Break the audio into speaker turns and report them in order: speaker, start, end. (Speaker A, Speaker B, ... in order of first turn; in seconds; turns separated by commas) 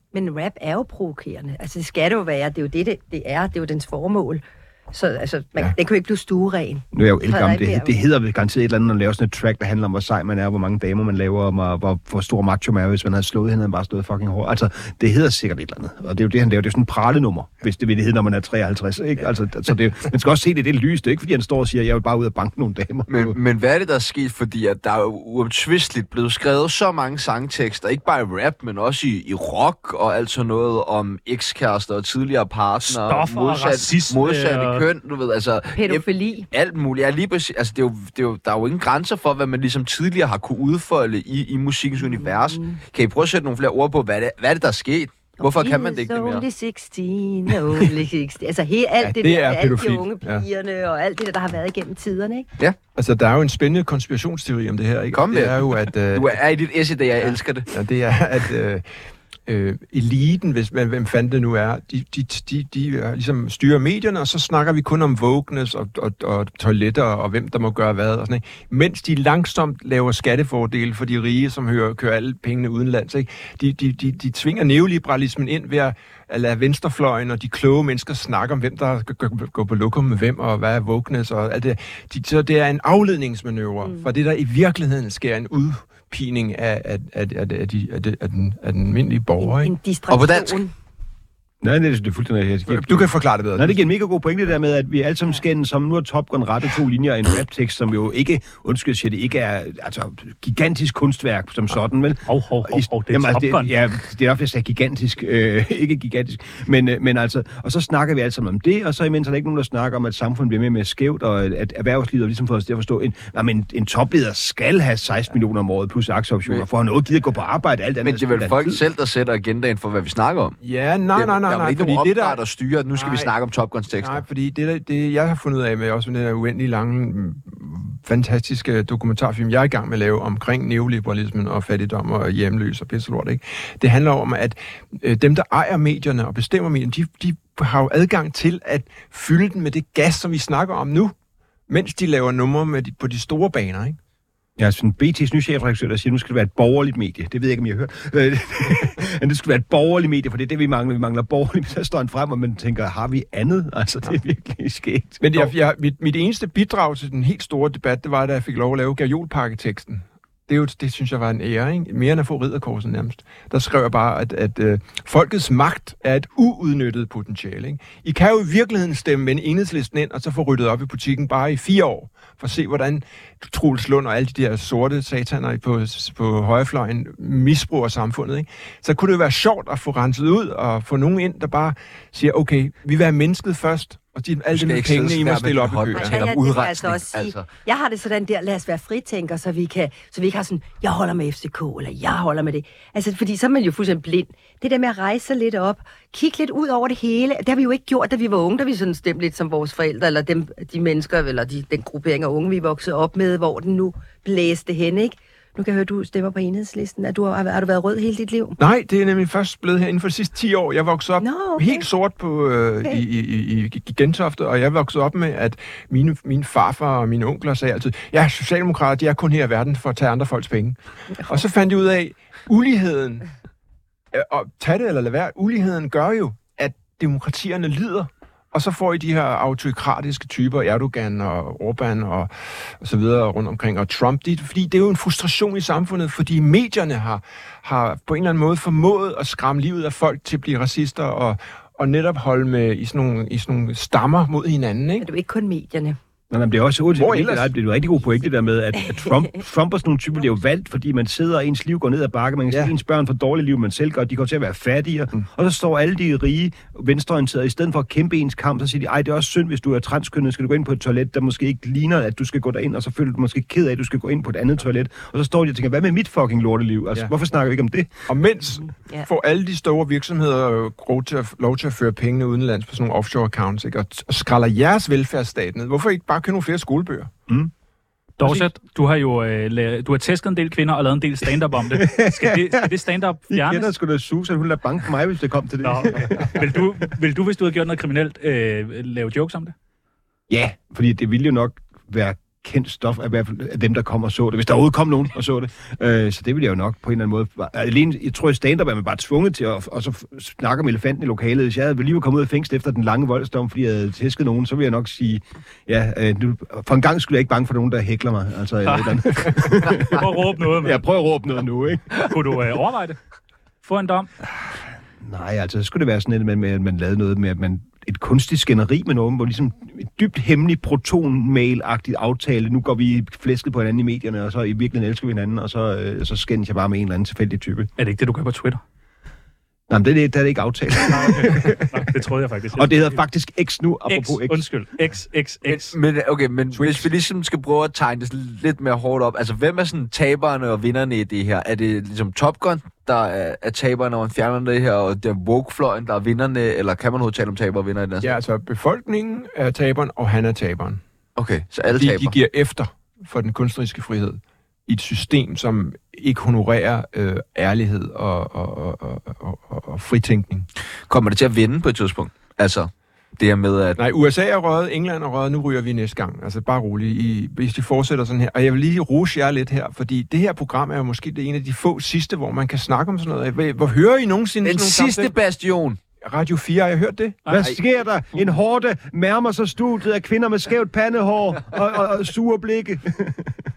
Speaker A: 0.1-8.0, Speaker B: 6.9-23.4, Speaker C: 23.1-46.5, Speaker D: 32.8-34.8, Speaker A: 35.8-36.5, Speaker A: 42.0-42.8, Speaker A: 45.4-52.5, Speaker E: 49.0-50.5, Speaker E: 52.9-56.4, Speaker C: 55.1-57.7, Speaker E: 57.2-58.9, Speaker E: 59.5-89.7, Speaker A: 83.8-84.1, Speaker A: 89.4-90.7, Speaker C: 90.1-90.6, Speaker B: 91.6-118.8, Speaker E: 92.7-93.8, Speaker D: 102.2-103.7, Speaker C: 118.0-120.6, Speaker E: 120.6-122.4, Speaker C: 121.1-124.2, Speaker E: 122.9-123.3, Speaker E: 123.9-141.1, Speaker E: 141.7-144.0, Speaker B: 144.6-155.5, Speaker E: 155.2-186.2, Speaker C: 184.5-187.5, Speaker A: 185.9-208.6, Speaker E: 208.6-223.2, Speaker A: 211.2-211.9, Speaker E: 224.1-245.1, Speaker A: 245.0-246.0, Speaker B: 246.3-267.9, Speaker E: 246.9-247.5, Speaker E: 252.5-252.7, Speaker E: 268.1-277.1, Speaker D: 278.2-283.7, Speaker B: 278.2-278.5, Speaker B: 281.7-282.7, Speaker B: 283.3-286.7, Speaker D: 285.6-289.5, Speaker B: 290.3-312.1, Speaker D: 308.6-310.8, Speaker D: 311.9-313.0, Speaker D: 313.6-314.1, Speaker B: 315.0-327.7, Speaker D: 327.8-328.6, Speaker B: 329.7-331.8, Speaker D: 330.8-333.0, Speaker B: 332.5-334.4, Speaker D: 333.9-335.7, Speaker C: 335.4-348.1, Speaker E: 336.5-336.9, Speaker E: 348.0-350.8, Speaker C: 351.1-352.1, Speaker E: 351.7-360.5, Speaker C: 360.9-363.8, Speaker E: 363.8-375.1, Speaker C: 374.4-375.8, Speaker E: 376.0-377.2, Speaker D: 377.2-377.5, Speaker B: 377.3-383.4